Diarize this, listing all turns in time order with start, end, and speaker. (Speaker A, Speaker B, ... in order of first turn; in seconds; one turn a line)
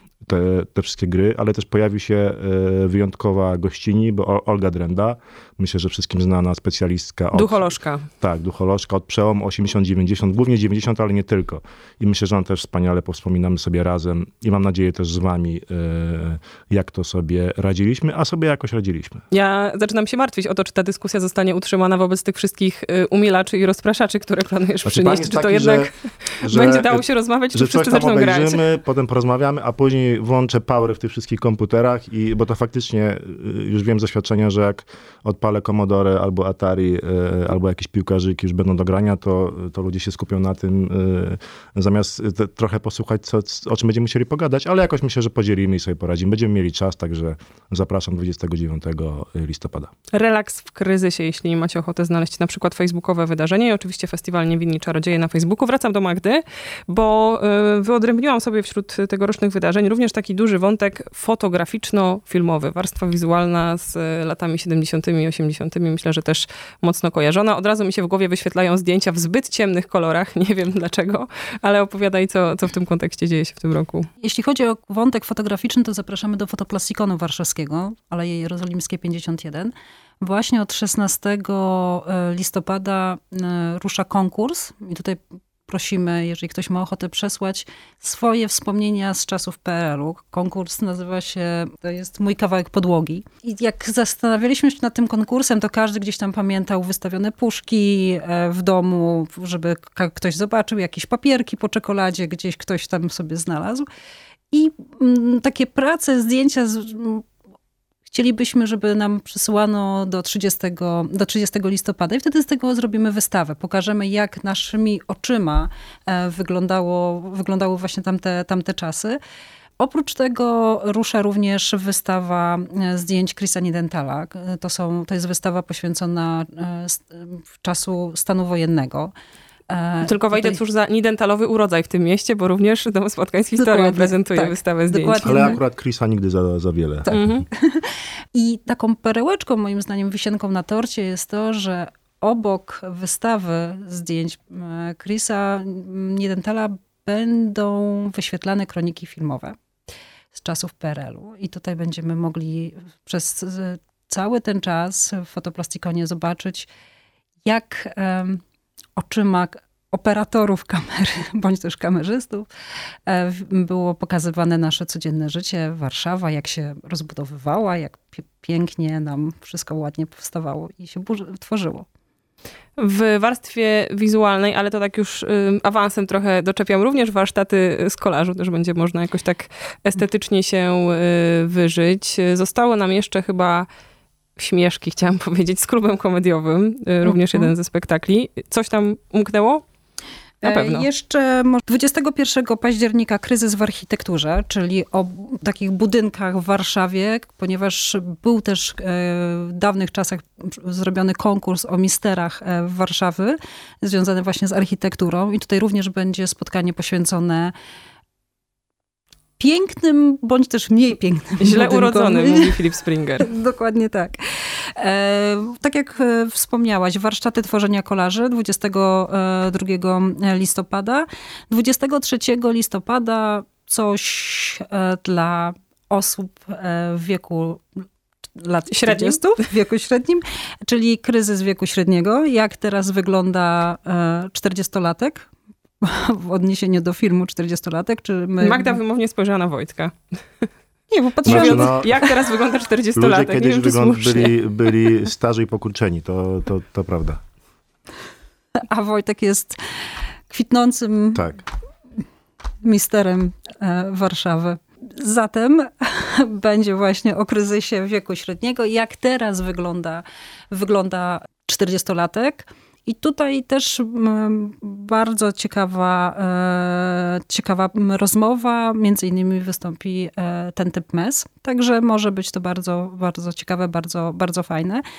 Speaker A: 0.2-7.7
Speaker B: 7.3-8.1
Speaker A: 8.2-19.2
Speaker B: 19.3-28.6
Speaker A: 24.8-25.9
Speaker A: 26.4-49.9
Speaker B: 50.1-74.0
Speaker C: 74.2-103.8
Speaker C: 104.5-107.2
Speaker C: 108.1-119.2
Speaker C: 119.8-129.1
Speaker C: 129.7-130.6
Speaker B: 130.0-135.5
Speaker C: 133.6-135.6
Speaker A: 135.2-137.2
Speaker C: 137.1-149.5
Speaker B: 137.1-137.4
Speaker C: 150.3-156.7
Speaker C: 157.4-158.4
Speaker C: 158.9-162.5
Speaker C: 163.1-171.8
Speaker B: 172.8-183.7
Speaker B: 184.4-189.6
Speaker C: 187.0-187.5
Speaker C: 190.4-207.5
Speaker B: 190.4-190.9
Speaker C: 209.4-212.7
Speaker B: 211.4-213.3
Speaker C: 213.2-214.2
Speaker C: 214.8-227.6
Speaker C: 228.4-235.3
Speaker B: 228.7-229.2
Speaker C: 235.8-238.8
Speaker B: 238.4-239.9
Speaker C: 240.9-242.1
Speaker B: 241.2-244.3
Speaker A: 241.2-241.9
Speaker A: 242.9-247.2
Speaker C: 248.7-249.6
Speaker C: 250.3-251.3
Speaker A: 251.1-251.4
Speaker C: 252.6-274.8